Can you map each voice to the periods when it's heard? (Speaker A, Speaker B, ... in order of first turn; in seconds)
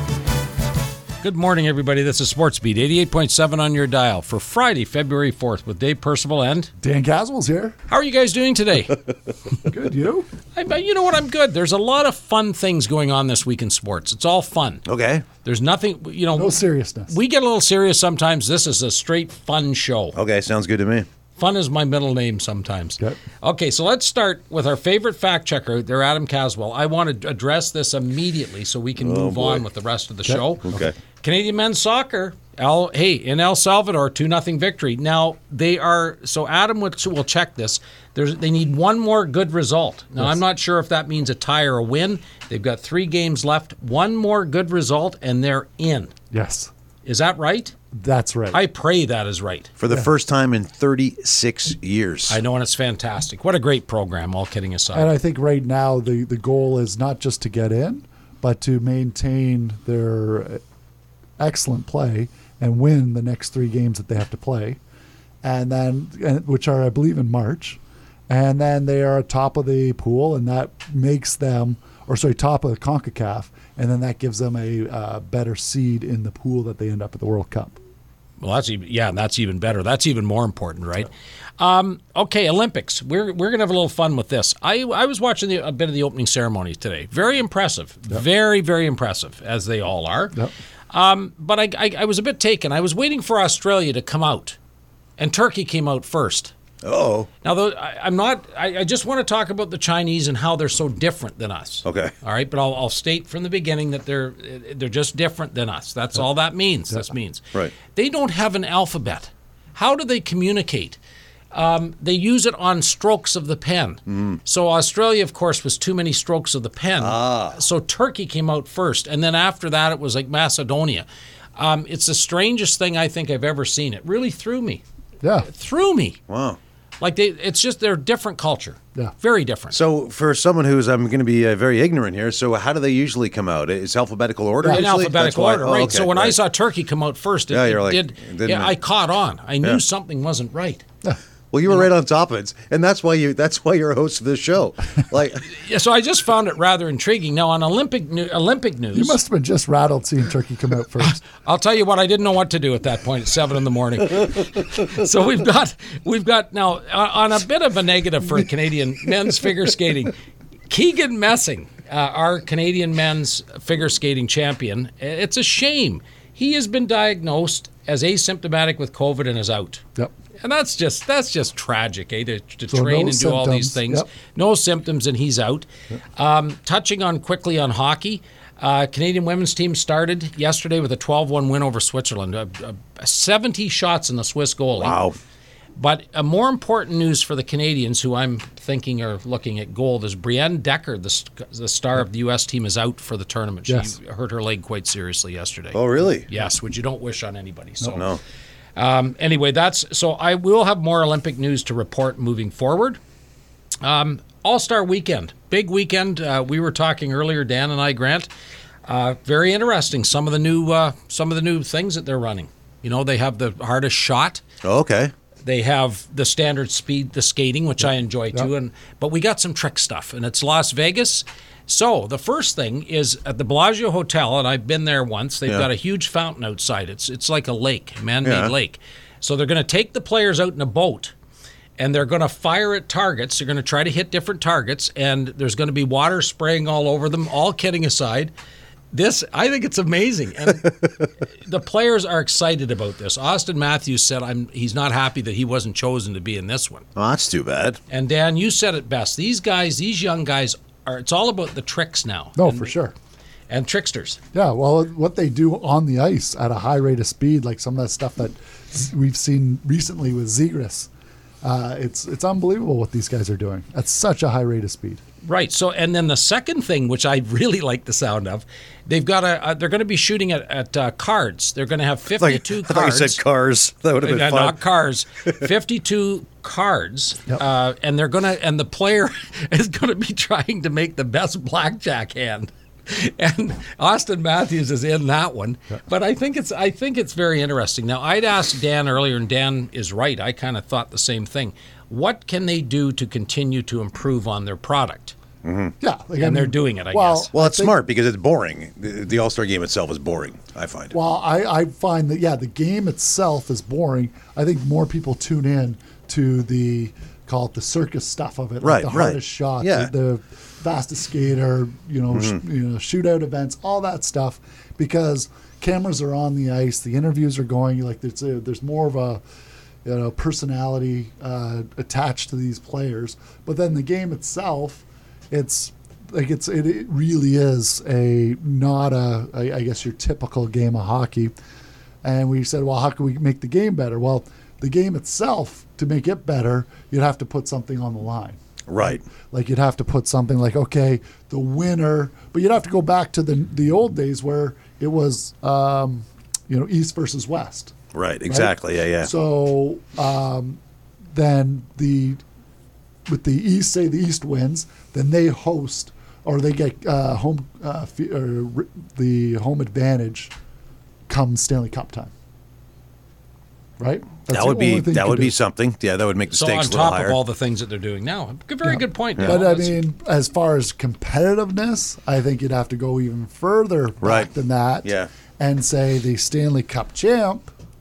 Speaker A: 1.2-6.7, 7.9-9.1, 10.5-14.8, 15.4-20.1, 21.4-46.1, 47.0-47.7, 48.5-49.7, 52.3-55.1, 78.4-94.6, 95.2-96.5, 97.4-111.0, 111.5-121.0, 121.6-124.8, 125.4-126.2, 127.0-129.8, 134.7-140.8, 145.4-149.2, 151.0-160.1, 160.7-169.8, 170.4-185.0, 185.8-198.1, 198.8-203.0, 203.8-208.3, 208.8-214.4, 215.4-231.1, 231.8-238.3, 238.9-246.8, 247.9-252.8, 253.5-254.2, 265.2-273.2, 274.0-295.1, 296.2-297.3, 366.3-369.8
Speaker B: 6.8-7.7, 9.7-10.3, 16.3-17.1, 30.2-30.9, 46.3-46.7, 47.9-48.6, 54.9-60.6, 61.4-64.8, 65.4-77.8, 125.2-125.5, 134.6-134.9, 148.9-151.2, 172.7-174.1, 193.7-193.9, 252.3-252.9, 254.3-260.9, 261.4-265.0, 295.8-297.8, 300.9-319.2, 319.8-331.3, 332.0-347.7, 348.3-350.6, 351.1-352.2, 353.1-360.3, 361.1-362.1, 363.8-365.3, 368.6-377.5
Speaker C: 14.9-15.2, 20.1-21.1, 28.9-29.6, 30.6-30.9, 49.8-52.4, 96.8-97.3, 101.8-102.1, 114.1-114.4, 117.0-117.6, 126.3-126.6, 129.7-136.4, 137.5-138.8, 141.5-145.5, 184.8-185.2, 195.7-196.3, 197.9-198.2, 214.6-215.1, 228.2-228.5, 246.9-247.8, 272.2-274.6, 295.4-295.7, 297.3-300.9, 308.6-309.9, 312.1-312.4, 338.7-339.0, 347.9-349.1, 364.3-367.2, 374.0-374.3, 374.8-375.1